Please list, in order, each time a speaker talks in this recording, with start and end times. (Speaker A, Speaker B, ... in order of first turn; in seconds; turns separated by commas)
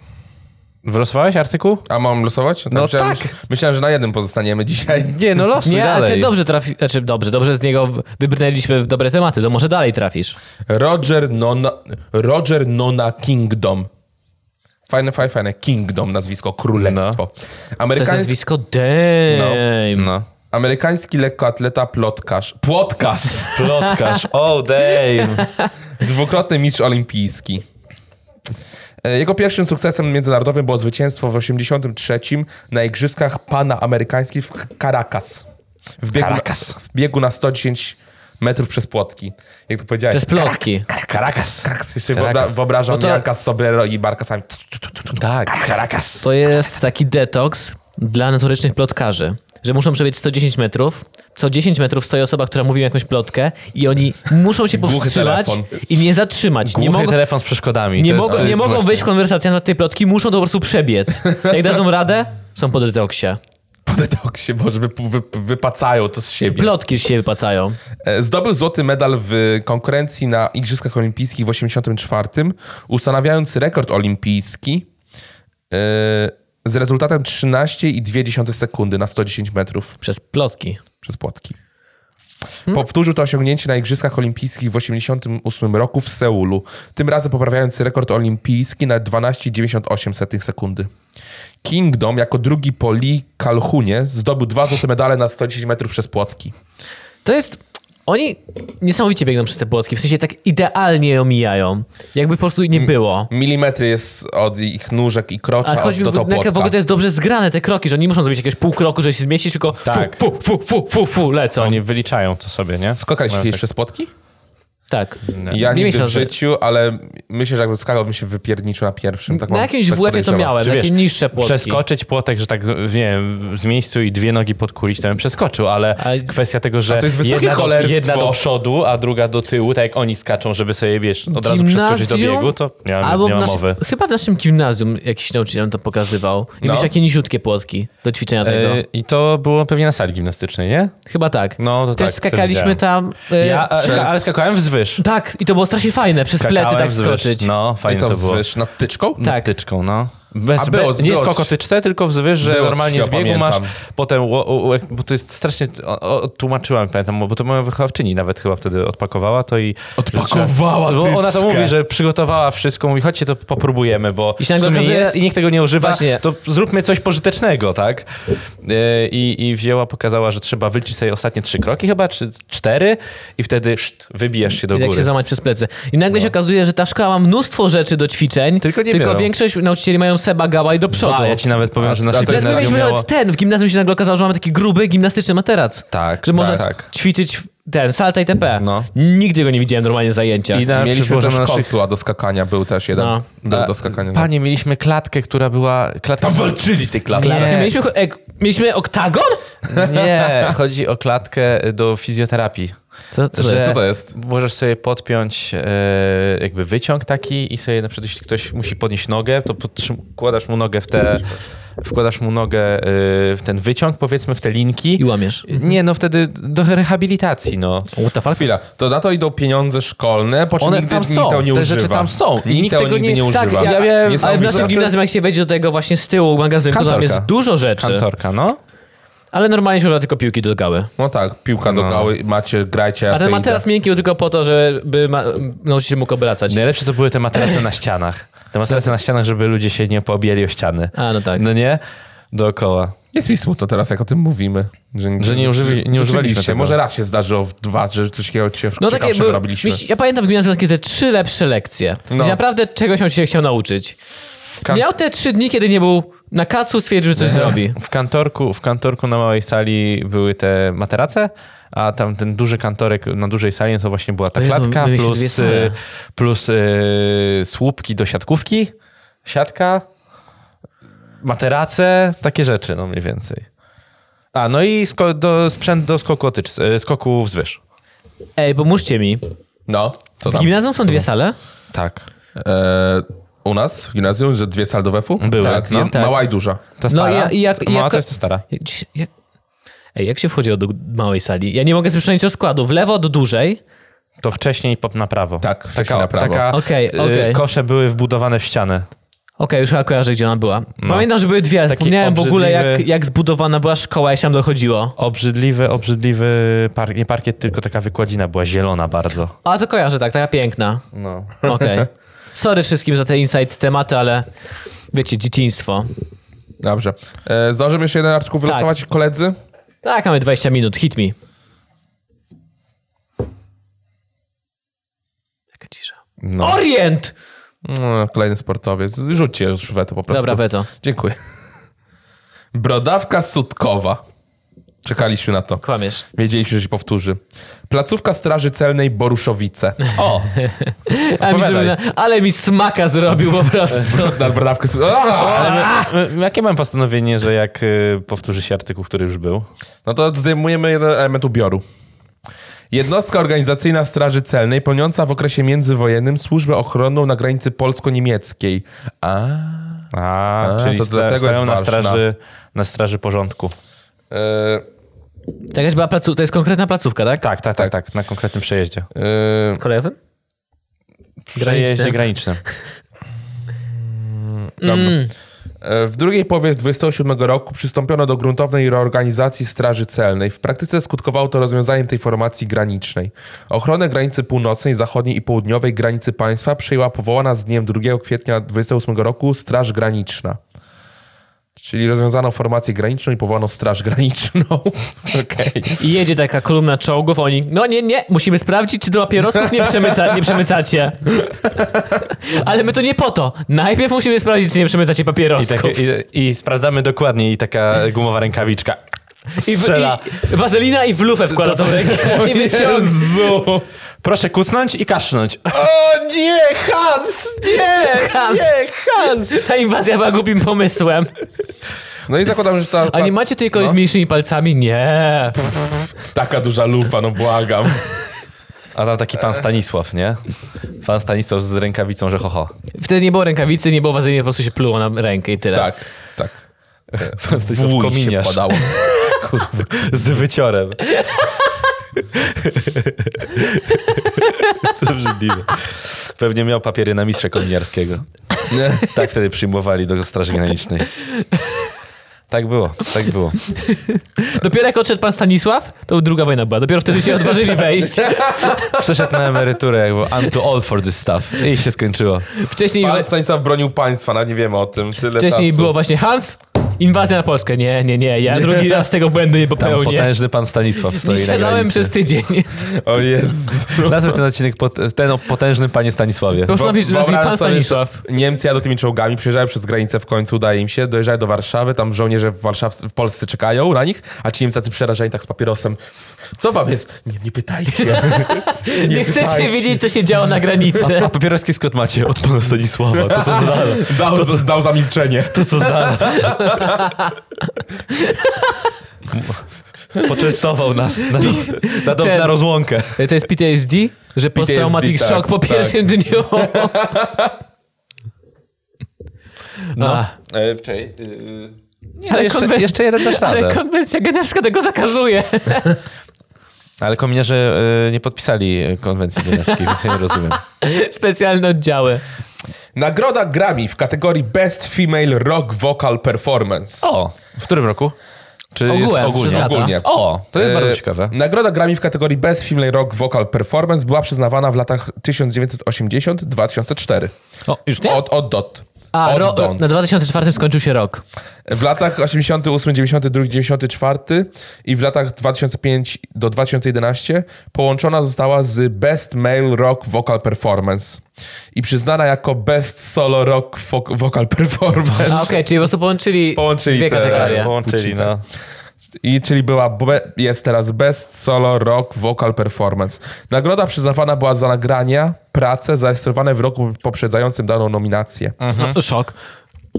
Speaker A: 0.8-1.8, Speaker B: 1.9-5.2, Speaker A: 2.7-3.3, Speaker A: 5.1-6.3, Speaker C: 5.6-10.4, Speaker B: 10.7-13.9, Speaker B: 14.9-18.4, Speaker A: 16.8-17.2, Speaker C: 18.0-20.1, Speaker B: 19.3-19.6, Speaker A: 19.9-20.2, Speaker B: 20.5-23.6, Speaker A: 23.5-25.5, Speaker C: 23.7-24.2, Speaker C: 25.0-25.7, Speaker B: 26.0-27.6, Speaker B: 29.0-35.4, Speaker B: 36.0-45.9, Speaker A: 36.1-36.8, Speaker C: 40.1-40.9, Speaker A: 41.0-42.6, Speaker C: 42.9-43.2, Speaker A: 45.1-46.3, Speaker C: 46.2-57.2, Speaker B: 54.7-55.7, Speaker A: 56.6-59.0, Speaker C: 58.0-63.4, Speaker B: 58.2-58.6, Speaker B: 63.9-66.8, Speaker C: 66.4-67.8, Speaker B: 68.0-74.9, Speaker B: 75.7-79.9, Speaker C: 80.0-80.8, Speaker B: 81.0-81.5, Speaker B: 82.7-90.9, Speaker B: 91.6-96.5, Speaker C: 97.2-103.3, Speaker B: 102.7-106.7, Speaker C: 105.6-111.8, Speaker A: 109.8-110.2, Speaker A: 111.6-113.6, Speaker B: 113.0-114.1, Speaker C: 114.9-116.3, Speaker A: 115.3-115.6, Speaker B: 115.5-120.5, Speaker C: 119.3-121.8, Speaker A: 120.6-133.8, Speaker C: 126.0-126.3, Speaker B: 126.9-128.4, Speaker C: 131.3-138.8, Speaker B: 136.6-136.9, Speaker A: 138.4-140.9, Speaker C: 141.1-144.2, Speaker A: 141.6-142.8, Speaker A: 143.4-145.0, Speaker B: 143.8-144.1, Speaker C: 145.0-147.5, Speaker A: 146.4-148.4, Speaker B: 147.8-149.2, Speaker A: 149.2-175.1, Speaker C: 149.2-149.5, Speaker B: 150.5-151.5, Speaker B: 152.4-153.7, Speaker B: 160.0-161.7, Speaker C: 164.4-165.2, Speaker C: 165.8-166.2, Speaker C: 174.7-181.5, Speaker A: 178.6-179.3, Speaker A: 180.9-183.1, Speaker B: 181.8-182.8, Speaker C: 182.1-190.7, Speaker A: 185.9-186.9, Speaker A: 188.6-188.9, Speaker A: 190.5-191.7, Speaker B: 190.7-194.3, Speaker C: 192.9-193.2, Speaker A: 193.4-197.7, Speaker B: 196.2-197.7, Speaker C: 197.2-199.4, Speaker B: 199.7-200.5, Speaker A: 199.7-202.8, Speaker C: 203.1-203.8, Speaker A: 203.3-217.9, Speaker B: 203.4-204.1, Speaker C: 215.0-215.7, Speaker C: 217.9-218.5, Speaker B: 218.3-224.8, Speaker A: 220.6-224.9, Speaker C: 223.3-228.1, Speaker A: 226.7-228.6, Speaker C: 229.3-230.9, Speaker B: 231.0-233.6, Speaker A: 231.6-232.1, Speaker C: 233.1-236.6, Speaker A: 236.5-241.8, Speaker C: 240.9-241.4, Speaker A: 242.3-242.9, Speaker B: 243.1-249.8, Speaker A: 245.2-246.8, Speaker C: 248.8-254.0, Speaker B: 252.1-252.4, Speaker C: 254.6-257.8, Speaker B: 257.2-257.6, Speaker A: 257.3-268.7, Speaker C: 264.4-265.7, Speaker A: 269.2-269.9, Speaker A: 271.2-273.5, Speaker A: 274.3-277.6, Speaker C: 278.4-279.2, Speaker B: 279.7-280.5, Speaker C: 280.2-281.4, Speaker A: 281.7-282.1, Speaker B: 282.4-286.6, Speaker A: 285.2-286.0, Speaker C: 285.4-286.2, Speaker A: 286.8-288.4, Speaker C: 286.9-289.1, Speaker C: 289.9-293.6, Speaker A: 294.2-298.9, Speaker B: 295.4-296.5, Speaker C: 296.5-297.4, Speaker C: 299.4-304.9, Speaker A: 300.8-301.1, Speaker A: 301.6-302.8, Speaker A: 305.0-309.3, Speaker C: 309.4-310.8, Speaker A: 310.9-311.3, Speaker C: 311.4-314.3, Speaker C: 314.9-315.9, Speaker B: 316.6-319.4, Speaker C: 319.8-321.1, Speaker C: 325.6-327.1, Speaker A: 326.2-326.6, Speaker B: 327.6-331.1, Speaker C: 330.1-330.7, Speaker B: 332.5-334.0, Speaker B: 334.8-335.6, Speaker C: 335.6-336.0, Speaker B: 336.1-339.9, Speaker A: 339.9-340.4, Speaker C: 340.4-344.4, Speaker A: 341.2-341.7, Speaker B: 343.7-345.7, Speaker A: 345.2-349.5, Speaker C: 345.2-345.9, Speaker B: 349.8-351.6, Speaker B: 352.7-359.9, Speaker A: 359.9-363.5, Speaker B: 360.4-362.0, Speaker B: 364.1-364.6, Speaker C: 365.5-367.2, Speaker A: 367.2-368.9, Speaker B: 368.9-369.6, Speaker C: 369.6-369.9, Speaker A: 371.3-372.4, Speaker C: 371.4-372.0, Speaker B: 373.9-375.1, Speaker C: 374.6-375.1, Speaker B: 375.6-390.4, Speaker B: 391.6-395.8, Speaker C: 395.8-405.8, Speaker B: 399.9-400.1, Speaker B: 401.4-401.9, Speaker A: 405.4-408.8, Speaker C: 409.4-413.2, Speaker A: 409.4-410.0, Speaker B: 411.4-413.6, Speaker A: 414.0-415.6, Speaker B: 415.5-419.2, Speaker C: 417.4-421.1, Speaker B: 422.1-423.8, Speaker C: 422.9-425.5, Speaker B: 426.0-427.8, Speaker A: 428.7-430.2, Speaker A: 430.8-432.5, Speaker C: 432.8-435.7, Speaker B: 435.5-436.4, Speaker A: 437.0-438.7, Speaker B: 437.0-439.8, Speaker A: 439.5-440.9, Speaker A: 442.1-443.8, Speaker A: 444.6-448.1, Speaker B: 448.5-448.9, Speaker A: 448.8-450.9, Speaker C: 451.3-451.7, Speaker A: 452.3-453.5, Speaker C: 453.5-458.7, Speaker B: 458.0-458.8, Speaker A: 458.8-462.3, Speaker C: 462.4-463.1, Speaker B: 462.8-465.7, Speaker C: 465.1-470.1, Speaker B: 468.4-468.8, Speaker A: 469.6-471.9, Speaker C: 470.8-472.6, Speaker B: 472.6-474.2, Speaker A: 473.8-476.5, Speaker C: 476.4-478.0, Speaker B: 476.5-485.8, Speaker B: 486.4-489.8, Speaker C: 487.9-491.1, Speaker A: 490.8-494.5, Speaker B: 492.9-496.9, Speaker A: 495.3-496.4, Speaker C: 496.4-496.9, Speaker C: 497.9-498.7, Speaker A: 499.1-499.4, Speaker A: 500.0-503.0, Speaker C: 501.1-502.4, Speaker C: 502.9-506.9, Speaker B: 504.3-507.3, Speaker C: 509.7-510.1, Speaker A: 509.8-513.6, Speaker C: 512.1-515.8, Speaker A: 516.8-520.4, Speaker C: 519.3-522.0, Speaker B: 522.8-526.9, Speaker A: 526.8-527.9, Speaker A: 528.5-531.1, Speaker C: 528.7-529.7, Speaker B: 529.2-537.1, Speaker C: 537.5-538.0, Speaker B: 537.8-539.6, Speaker C: 538.9-541.0, Speaker B: 541.5-551.0, Speaker B: 551.5-555.5, Speaker C: 555.1-557.5, Speaker B: 556.3-558.2, Speaker A: 556.9-558.2, Speaker B: 559.0-568.4, Speaker A: 568.4-568.8, Speaker C: 568.5-569.1